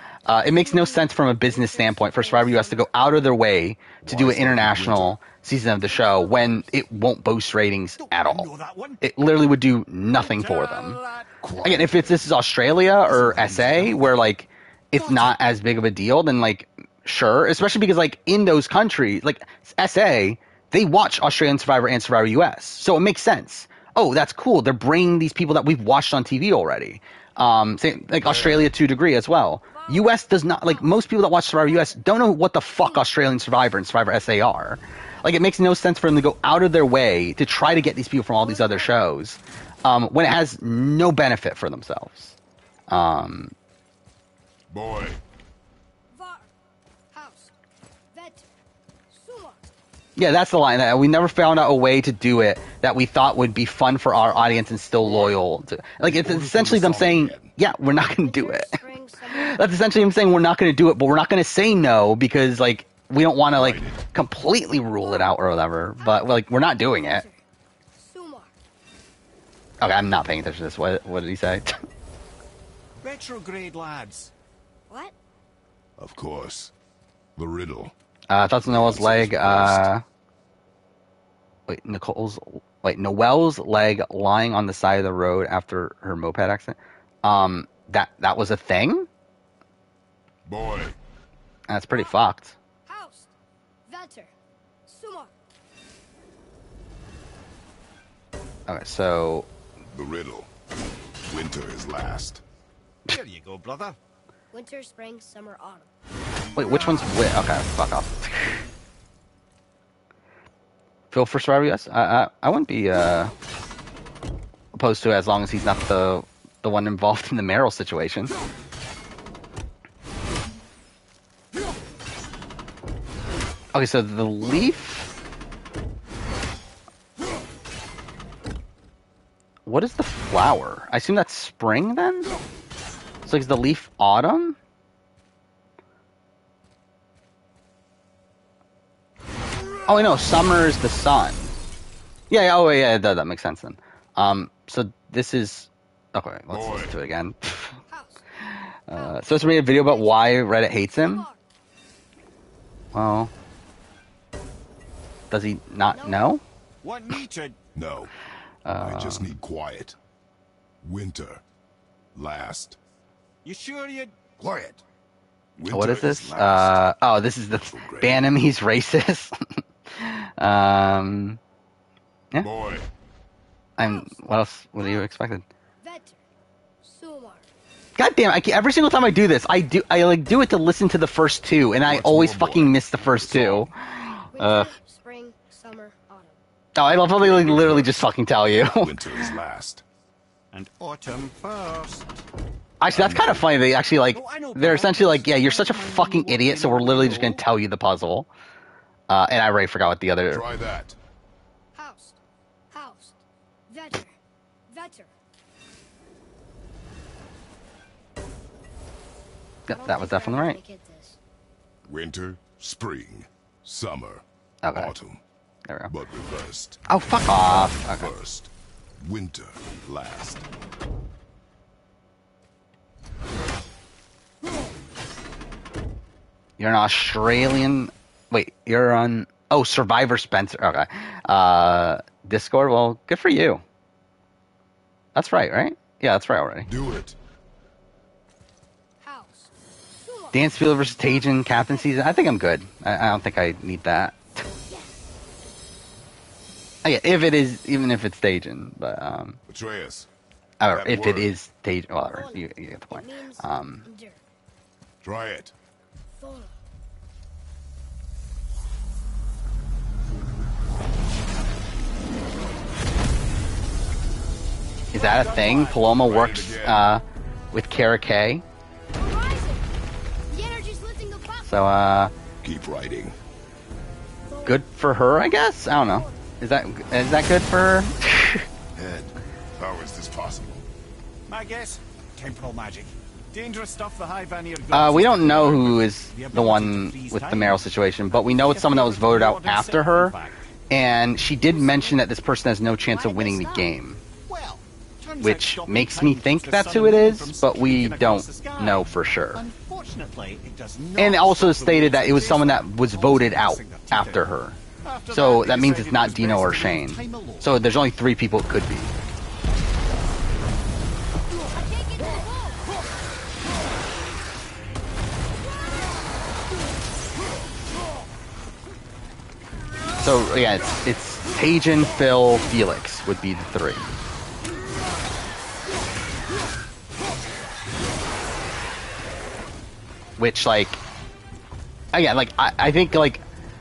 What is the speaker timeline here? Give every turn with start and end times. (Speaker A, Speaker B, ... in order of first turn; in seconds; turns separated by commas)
Speaker A: 0.3-8.5, Speaker B: 0.3-3.3, Speaker C: 4.0-5.2, Speaker B: 5.8-6.8, Speaker D: 8.0-9.0, Speaker A: 9.0-11.0, Speaker D: 10.1-11.3, Speaker C: 11.4-12.3, Speaker A: 11.6-42.4, Speaker C: 13.1-14.1, Speaker D: 13.2-13.9, Speaker C: 28.2-28.7, Speaker B: 29.7-31.0, Speaker B: 31.6-32.1, Speaker B: 38.4-39.0, Speaker A: 42.9-43.5, Speaker C: 44.7-45.2, Speaker B: 46.1-46.5, Speaker B: 47.1-47.5, Speaker B: 48.1-48.5, Speaker B: 49.1-49.6, Speaker A: 50.2-58.8, Speaker C: 55.0-55.4, Speaker C: 56.0-57.5, Speaker B: 58.0-59.7, Speaker A: 59.3-67.2, Speaker C: 63.5-64.0, Speaker B: 65.0-67.4, Speaker B: 68.0-68.5, Speaker A: 69.8-71.8, Speaker D: 73.0-74.3, Speaker C: 76.0-76.7, Speaker C: 77.4-78.0, Speaker A: 78.3-80.0, Speaker C: 78.6-79.9, Speaker A: 81.7-89.1, Speaker C: 90.5-91.0, Speaker A: 91.7-92.6, Speaker B: 92.9-93.3, Speaker B: 93.9-94.3, Speaker B: 94.9-95.3, Speaker A: 98.7-99.5, Speaker C: 99.9-100.5, Speaker C: 101.3-102.4, Speaker D: 103.1-104.0, Speaker B: 104.5-105.9, Speaker A: 106.6-108.6, Speaker A: 111.1-113.3, Speaker A: 114.8-118.3, Speaker A: 123.7-125.1, Speaker A: 129.7-132.3, Speaker A: 133.3-134.6, Speaker A: 139.8-141.6, Speaker A: 142.3-147.8, Speaker C: 146.5-146.9, Speaker B: 147.9-148.2, Speaker A: 148.5-151.3, Speaker B: 148.9-151.4, Speaker A: 152.9-153.3, Speaker A: 155.3-156.4, Speaker B: 155.9-156.3, Speaker D: 156.8-157.6, Speaker C: 157.7-158.1, Speaker A: 158.7-159.3, Speaker C: 158.8-160.0, Speaker C: 160.8-161.4, Speaker C: 162.2-162.8, Speaker D: 163.4-164.2, Speaker C: 164.4-164.8, Speaker C: 165.6-166.9, Speaker A: 165.7-169.4, Speaker C: 167.5-168.3, Speaker A: 169.9-171.4, Speaker C: 172.4-172.9, Speaker A: 173.8-175.4, Speaker B: 173.8-174.3, Speaker B: 174.8-175.1, Speaker B: 175.8-176.2, Speaker B: 176.8-177.5, Speaker A: 178.0-184.7, Speaker C: 181.8-183.7, Speaker B: 184.3-186.4, Speaker A: 186.8-189.3, Speaker C: 187.1-189.8, Speaker D: 190.5-192.1, Speaker A: 192.8-198.3, Speaker C: 192.9-193.4, Speaker D: 194.1-197.4, Speaker A: 199.1-200.4, Speaker C: 200.3-201.0, Speaker B: 201.8-202.2, Speaker B: 202.7-204.2, Speaker B: 204.7-205.1, Speaker A: 209.7-210.6, Speaker B: 209.7-211.2, Speaker C: 211.8-215.2, Speaker A: 214.6-214.9, Speaker C: 215.9-220.5, Speaker A: 216.9-218.1, Speaker A: 226.6-233.6, Speaker A: 235.2-236.7, Speaker C: 236.7-237.2, Speaker B: 239.0-239.5, Speaker B: 240.0-242.2, Speaker A: 240.3-244.4, Speaker B: 244.7-245.1, Speaker A: 246.8-249.4, Speaker C: 249.5-250.1, Speaker A: 250.6-253.9, Speaker C: 250.7-251.4, Speaker B: 252.1-254.2, Speaker C: 255.0-255.5, Speaker B: 256.1-256.5, Speaker A: 264.9-268.4, Speaker C: 264.9-266.9, Speaker B: 268.9-269.7, Speaker B: 270.3-271.6, Speaker A: 271.4-272.1, Speaker C: 272.4-273.2, Speaker B: 274.3-274.6, Speaker A: 274.4-278.4, Speaker B: 275.6-276.1, Speaker C: 278.7-280.6, Speaker D: 281.3-290.3, Speaker A: 284.7-290.2, Speaker A: 290.7-294.0, Speaker B: 291.4-292.0, Speaker B: 292.9-293.7, Speaker D: 294.3-304.3, Speaker A: 295.2-299.4, Speaker A: 301.0-304.6, Speaker D: 304.8-307.6, Speaker A: 305.1-308.9, Speaker B: 311.5-312.7, Speaker A: 320.0-323.9, Speaker A: 330.2-330.8, Speaker A: 331.9-333.2